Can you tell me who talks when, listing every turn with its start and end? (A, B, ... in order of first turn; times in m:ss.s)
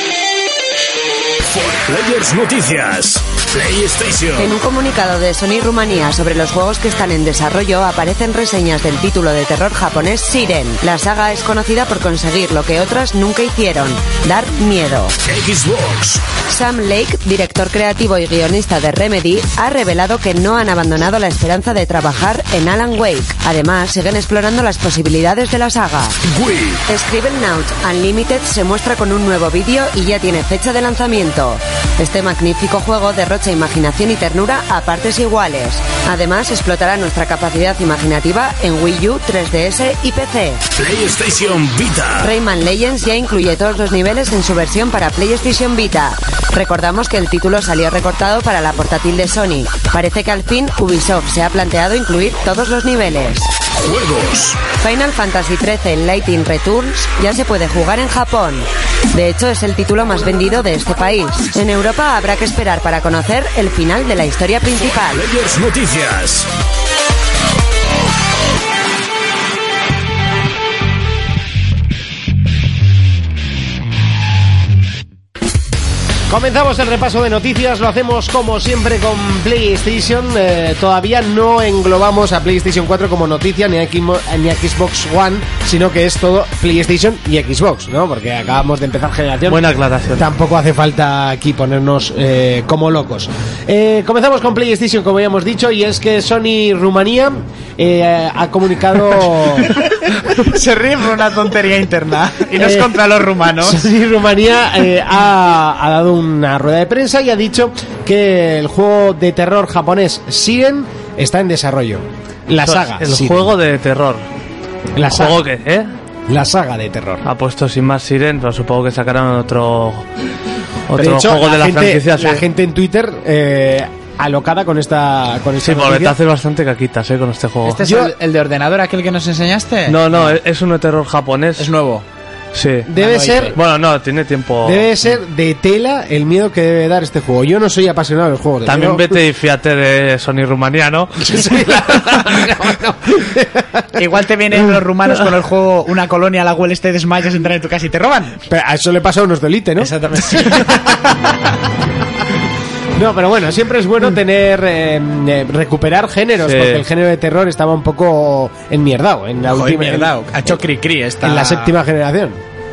0:01.4-0:04.6 A
0:04.4-0:15.2 B
0:15.3-0:16.2 A
0:16.5-0:26.2 B
0:26.3-0:26.8 A
0:26.9-0:40.6 B
0:40.8-0:42.4 A
0:42.2-0:53.5 B
0:53.7-0:54.6 A
0:54.7-1:05.2 B
1:04.9-1:06.5 A
1:16.3-1:39.8 C
1:29.5-1:30.2 D
1:40.2-1:43.9 E
1:42.6-1:43.1 C
1:43.6-1:53.5 C
1:52.6-1:54.2 D
1:55.0-1:55.4 C
1:55.1-1:55.9 D
1:56.3-1:57.3 C
1:57.2-2:00.1 D
2:00.9-2:02.4 D
2:01.0-2:06.2 C
2:05.6-2:07.8 D
2:07.6-2:10.4 E
2:07.8-2:08.1 C
2:09.9-2:11.7 D
2:11.6-2:12.0 E
2:12.5-2:12.9 D
2:12.9-2:13.6 C
2:12.9-2:13.6 E
2:13.5-2:14.9 D
2:14.6-2:19.1 C
2:18.7-2:22.3 D
2:21.2-2:24.0 C
2:24.0-2:28.4 E
2:28.5-2:31.0 C
2:29.8-2:31.3 E
2:33.0-2:40.6 C
2:36.4-2:36.8 D
2:39.5-2:41.8 E
2:41.2-2:42.4 C